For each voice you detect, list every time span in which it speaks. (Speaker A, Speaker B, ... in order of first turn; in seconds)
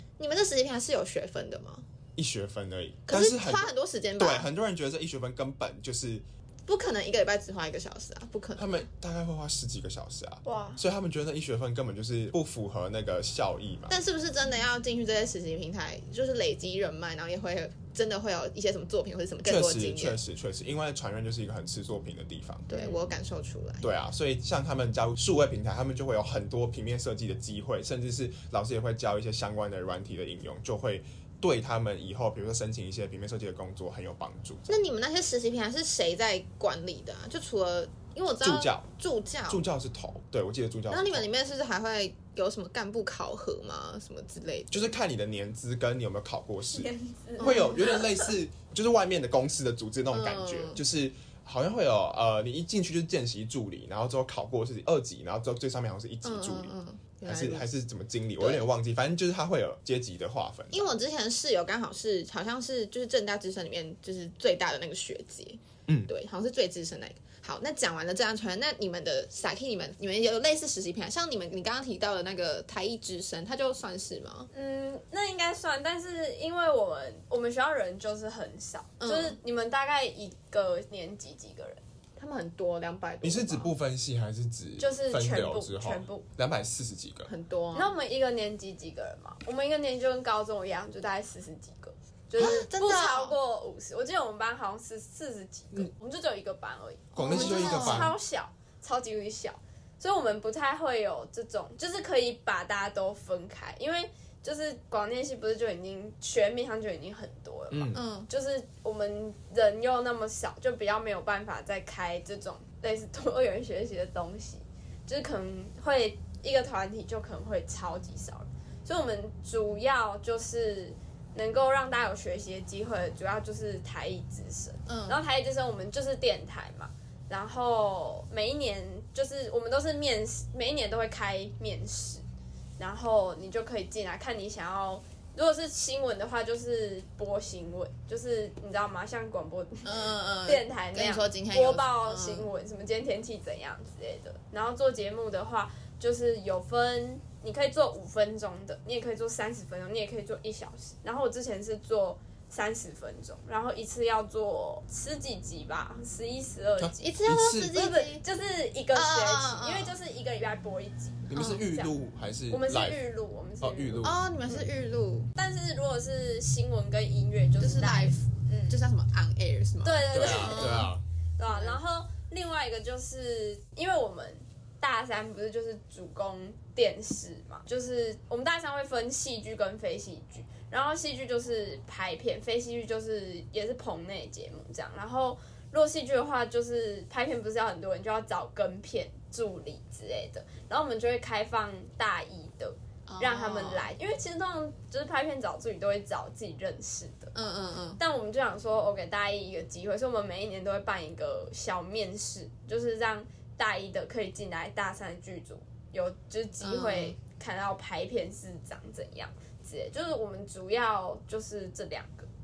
Speaker A: 0.2-1.8, 3.1-4.5, 6.7-8.7, 13.9-20.2, 22.7-23.9, 34.7-39.6, 40.9-44.9, 47.4-48.1, 50.1-50.8, 56.2-57.7, 58.4-58.6, 60.7-74.5, 79.0-79.4, 82.2-83.7, 87.3-87.9, 92.4-93.3, 97.2-98.1, 107.9-108.3, 124.9-125.2, 139.8-142.5, 157.0-158.2, 158.9-159.9, 164.0-165.3, 167.6-170.9, 171.5-171.8, 193.1-193.9, 197.3-198.0, 206.6-207.1
Speaker B: 2.1-6.2, 8.6-13.9, 19.4-22.7, 23.8-34.8, 38.4-38.9, 39.5-41.3, 44.7-56.7, 57.3-60.9, 65.9-66.1, 83.2-87.3, 97.1-98.1, 107.7-108.0, 156.8-157.7, 161.3-163.0, 163.6-164.7, 170.1-171.0
Speaker C: 10.4-10.8, 22.7-23.0, 46.7-48.0, 74.5-81.8, 84.8-86.3, 87.7-132.2, 132.8-157.1, 157.7-161.9, 162.5-164.0, 165.3-168.8, 169.8-197.3, 198.0-212.3